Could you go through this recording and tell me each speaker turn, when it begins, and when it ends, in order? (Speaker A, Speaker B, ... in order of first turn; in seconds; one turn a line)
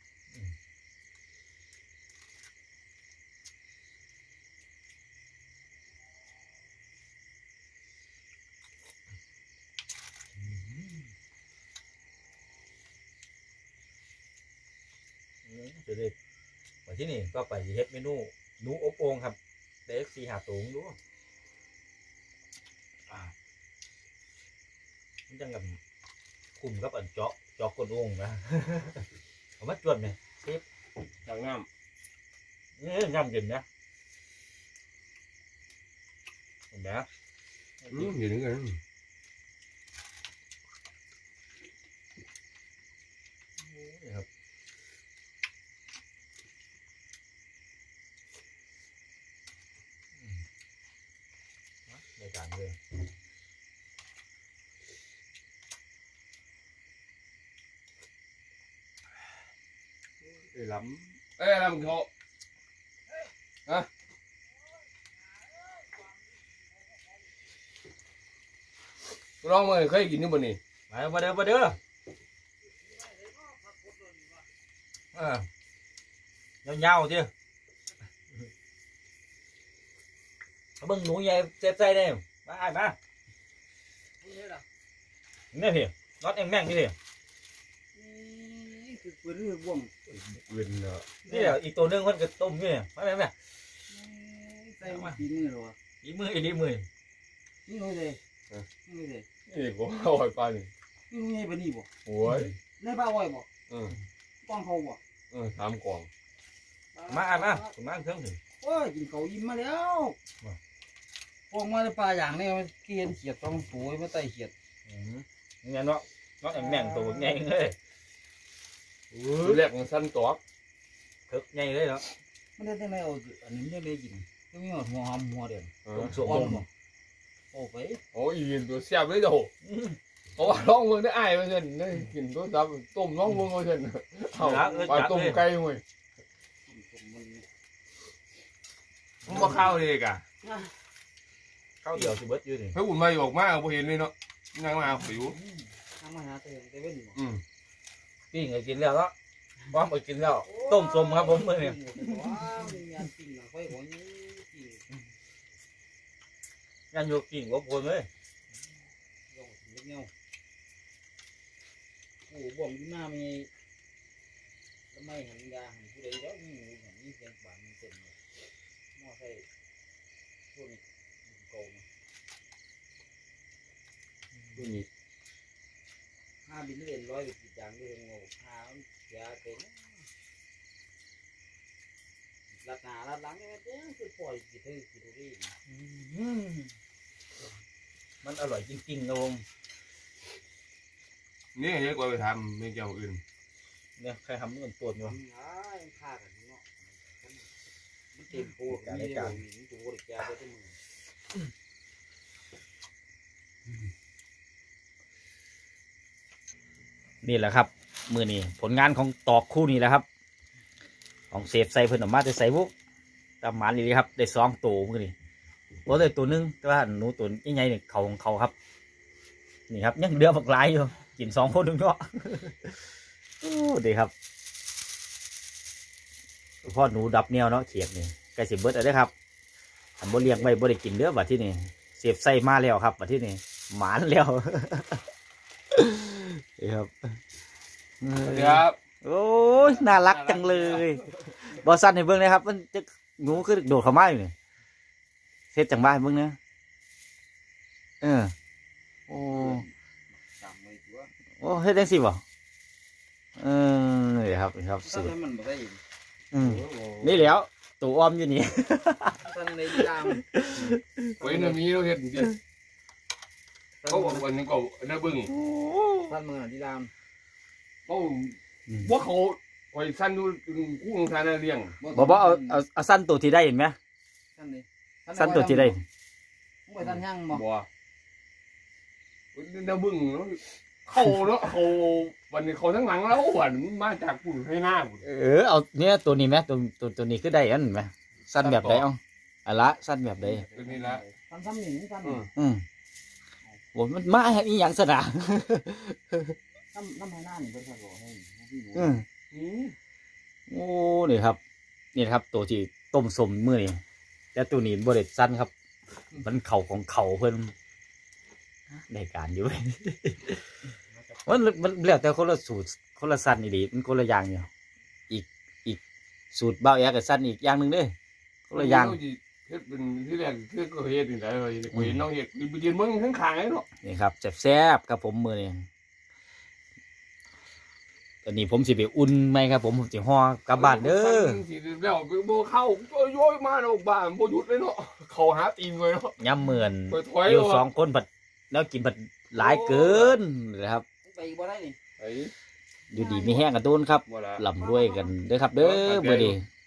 Speaker A: 10.4-11.1
Speaker A: 15.5-16.1
Speaker A: 16.9-21.0
Speaker A: 25.3-25.8
Speaker A: 26.6-29.1
Speaker A: 29.6-30.6
Speaker B: 31.2-31.7
Speaker A: 32.8-33.6
Speaker A: 36.7-37.1
Speaker A: 37.8-38.1
Speaker B: 37.9-38.8
Speaker A: 43.6-44.3
Speaker A: 51.9-52.8
Speaker B: 60.5-62.1
Speaker B: 69.4-70.6
Speaker A: 70.9-71.8
Speaker C: 73.0-74.4
Speaker A: 75.1-75.5
Speaker A: 76.6-77.3
Speaker A: 80.8-83.0
Speaker C: 84.2-84.6
Speaker A: 85.5-87.0
Speaker C: 88.0-89.9
Speaker B: 90.1-91.1
Speaker A: 91.2-93.3
Speaker C: 91.3-91.6
Speaker C: 93.9-95.8
Speaker A: 94.8-95.2
Speaker A: 96.0-96.9
Speaker C: 97.7-98.2
Speaker C: 98.8-99.2
Speaker B: 99.5-100.7
Speaker C: 101.1-101.9
Speaker B: 102.0-102.5
Speaker A: 102.2-102.5
Speaker C: 102.7-103.5
Speaker B: 103.7-104.0
Speaker C: 104.4-105.0
Speaker B: 105.3-106.1
Speaker C: 107.0-107.7
Speaker A: 107.1-108.4
Speaker C: 108.6-110.2
Speaker C: 111.5-114.5
Speaker A: 114.9-117.8
Speaker C: 116.5-117.4
Speaker A: 119.1-119.6
Speaker B: 119.4-120.4
Speaker A: 121.3-122.1
Speaker C: 122.6-126.6
Speaker B: 125.8-126.6
Speaker A: 125.9-126.6
Speaker C: 127.5-128.0
Speaker B: 128.1-129.5
Speaker A: 129.6-130.0
Speaker B: 130.4-135.8
Speaker A: 134.4-135.5
Speaker C: 136.7-137.4
Speaker B: 139.2-140.2
Speaker A: 139.3-139.6
Speaker C: 140.4-140.7
Speaker A: 141.8-142.8
Speaker B: 142.7-145.4
Speaker C: 145.4-147.2
Speaker B: 147.1-147.4
Speaker A: 148.3-149.1
Speaker A: 149.7-152.0
Speaker C: 150.4-154.8
Speaker A: 156.9-158.1
Speaker C: 159.3-160.1
Speaker C: 162.3-163.5
Speaker C: 164.9-168.1
Speaker C: 168.9-169.5
Speaker C: 170.5-171.9
Speaker B: 174.6-174.9
Speaker C: 176.4-180.1
Speaker C: 182.6-185.5
Speaker A: 185.7-186.7
Speaker A: 188.2-189.4
Speaker B: 191.6-193.2
Speaker A: 194.0-195.2
Speaker C: 195.0-197.5
Speaker C: 198.1-200.8
Speaker A: 198.3-199.4
Speaker A: 207.2-210.1
Speaker A: 211.3-212.7
Speaker A: 213.4-215.1
Speaker A: 215.9-218.5
Speaker A: 219.7-222.8
Speaker A: 223.4-224.1
Speaker A: 226.6-229.1
Speaker A: 230.0-235.0
Speaker A: 235.7-237.2
Speaker A: 238.0-244.3
Speaker B: 238.2-238.8
Speaker B: 239.6-241.0
Speaker A: 245.5-246.4
Speaker A: 248.0-248.3
Speaker A: 249.1-249.6
Speaker C: 249.2-249.7
Speaker C: 250.3-251.1
Speaker A: 251.4-252.2
Speaker A: 253.4-255.1
Speaker C: 254.8-255.8
Speaker A: 256.3-259.2
Speaker B: 256.4-257.3
Speaker C: 259.2-261.6
Speaker A: 259.8-261.1
Speaker B: 261.2-262.4
Speaker C: 263.8-264.2
Speaker B: 263.9-265.3
Speaker A: 265.2-266.2
Speaker C: 266.0-266.9
Speaker B: 267.9-271.8
Speaker C: 271.8-272.6
Speaker A: 271.9-273.8
Speaker C: 274.4-275.8
Speaker A: 275.2-275.8
Speaker C: 276.7-277.4
Speaker B: 276.8-277.7
Speaker B: 279.3-285.0
Speaker A: 285.0-290.5
Speaker B: 288.4-288.9
Speaker C: 290.4-292.3
Speaker B: 290.5-291.0
Speaker B: 292.0-292.3
Speaker A: 292.4-292.6
Speaker A: 293.8-296.3
Speaker C: 296.7-299.0
Speaker A: 298.7-299.0
Speaker B: 299.3-299.8
Speaker A: 300.5-301.4
Speaker A: 301.9-303.8
Speaker A: 304.3-305.5
Speaker A: 306.1-307.5
Speaker A: 308.7-310.5
Speaker A: 311.2-314.5
Speaker A: 315.1-315.8
Speaker A: 316.3-317.9
Speaker A: 318.5-319.0
Speaker B: 318.5-323.7
Speaker A: 321.7-322.0
Speaker A: 323.8-325.7
Speaker A: 328.2-331.4
Speaker B: 330.5-336.2
Speaker A: 336.2-340.8
Speaker B: 336.9-337.7
Speaker C: 339.4-340.1
Speaker C: 341.0-341.8
Speaker B: 342.0-342.3
Speaker A: 342.9-346.4
Speaker C: 342.9-343.4
Speaker B: 344.1-344.5
Speaker C: 344.6-345.1
Speaker B: 345.6-346.4